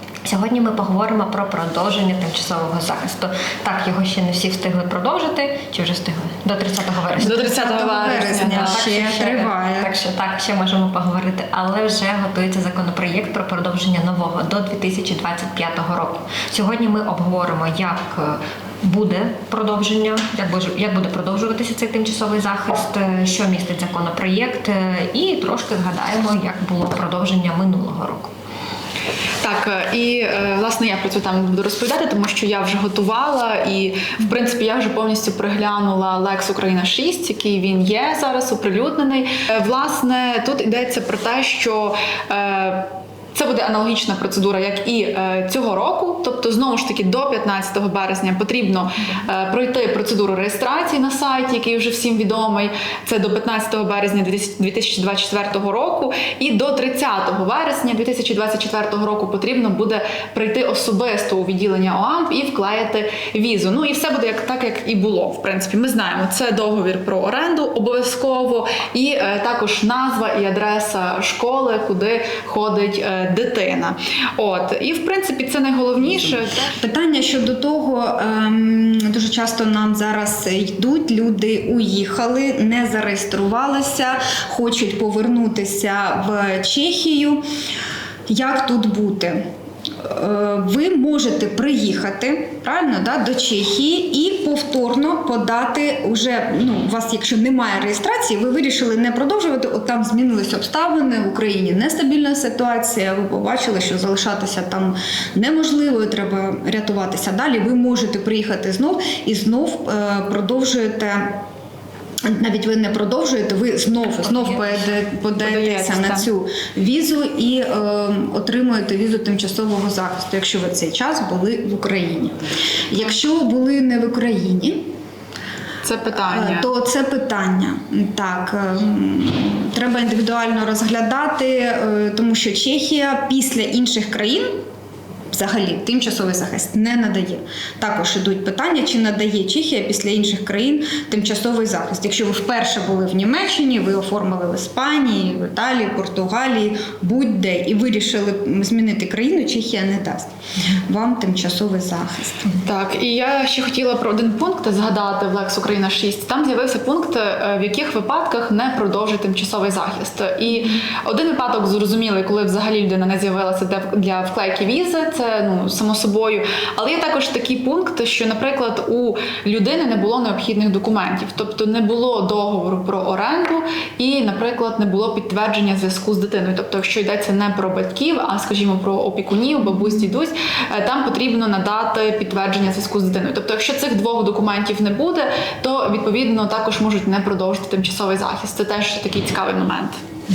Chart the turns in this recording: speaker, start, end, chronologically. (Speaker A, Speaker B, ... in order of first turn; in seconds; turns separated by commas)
Speaker A: 0.2-7.6, Speaker B: 7.2-8.9, Speaker C: 7.3-9.9, Speaker A: 8.3-28.3, Speaker B: 29.4-76.7, Speaker C: 76.7-87.4, Speaker C: 88.3-89.4, Speaker C: 90.0-111.4, Speaker C: 112.3-122.3, Speaker A: 114.2-114.7, Speaker B: 115.4-116.3, Speaker C: 122.9-124.8, Speaker B: 125.8-126.7, Speaker C: 126.1-134.6, Speaker C: 135.3-150.3, Speaker C: 150.9-152.5, Speaker B: 152.6-190.0